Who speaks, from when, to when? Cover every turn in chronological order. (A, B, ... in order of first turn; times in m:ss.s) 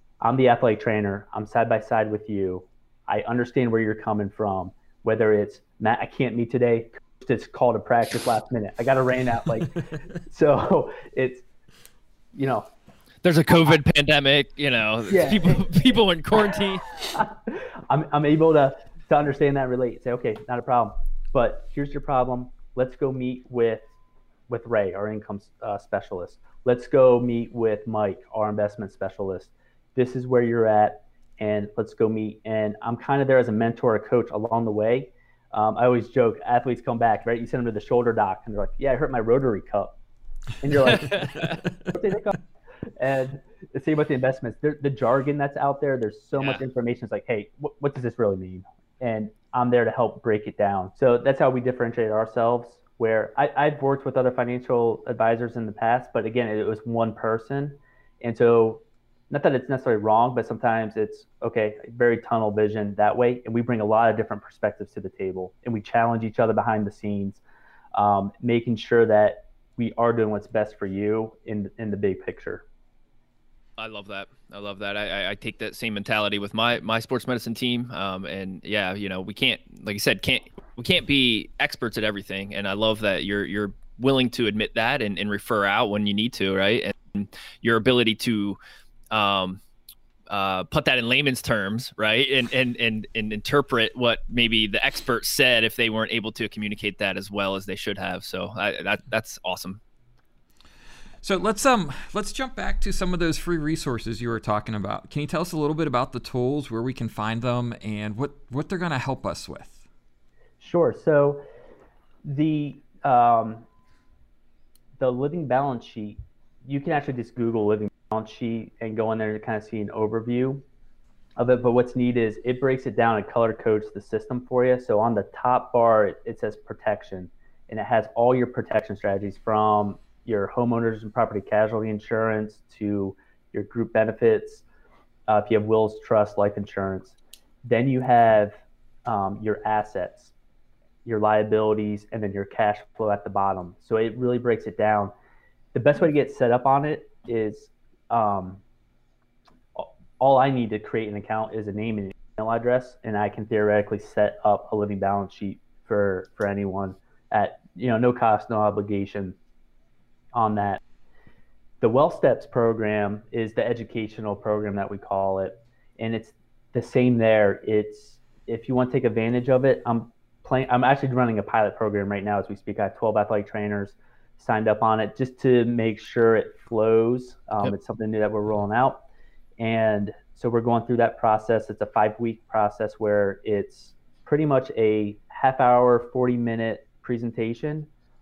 0:00.2-0:11.4 A
0:12.3-0:12.7 A
0:13.2-0:17.0 B
0:15.1-0:15.7 A
0:16.3-0:23.9 A
0:24.5-0:40.0 A
0:40.6-0:42.4 A
0:40.8-0:41.6 B
0:43.0-1:07.4 A
1:07.9-1:12.6 A
1:13.8-1:28.6 B
1:29.1-1:29.6 B
1:30.3-1:39.8 B
1:41.2-1:49.8 C
1:50.6-1:51.4 A
1:52.2-1:53.6 A
1:55.0-2:00.6 A
2:01.4-2:14.6 A
2:15.3-2:20.3 A
2:21.0-2:25.1 A
2:25.7-2:28.6 A
2:29.7-2:39.4 A
2:40.3-2:40.8 A
2:41.8-2:59.0 A
2:59.6-3:07.9 A